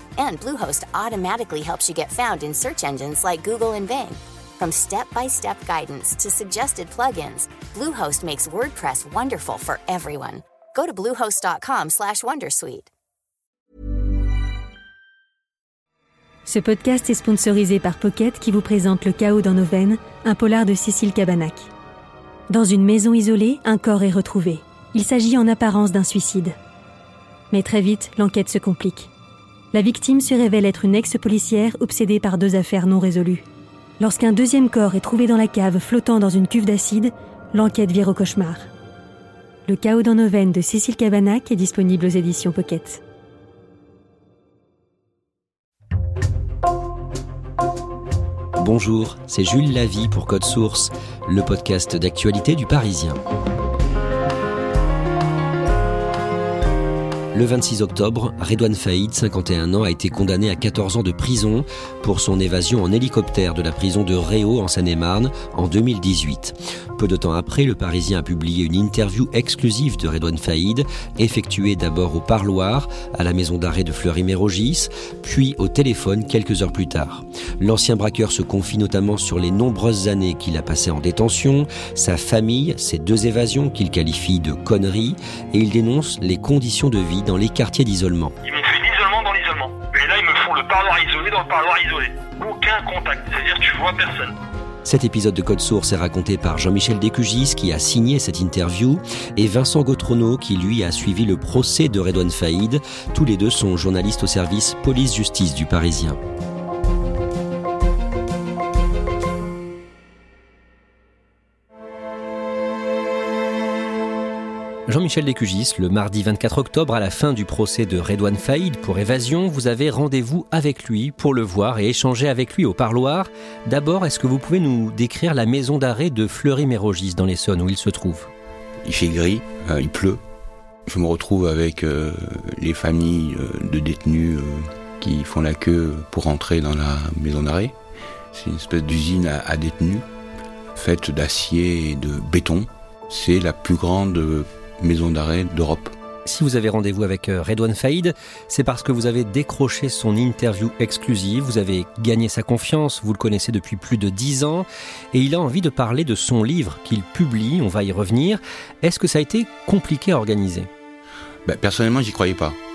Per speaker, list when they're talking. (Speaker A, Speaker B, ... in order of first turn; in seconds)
Speaker A: 0.2-12.9
Speaker B: 16.4-21.7, 22.5-26.6, 27.5-29.1, 29.7-33.4, 34.0-38.7, 39.6-43.0
Speaker C: 48.6-53.2, 57.3-88.3, 94.8-106.2, 114.9-128.3, 146.2-160.7
Speaker D: 88.4-94.3
Speaker E: 128.8-130.2, 130.9-137.7, 138.3-140.0, 140.8-145.9, 161.4-162.6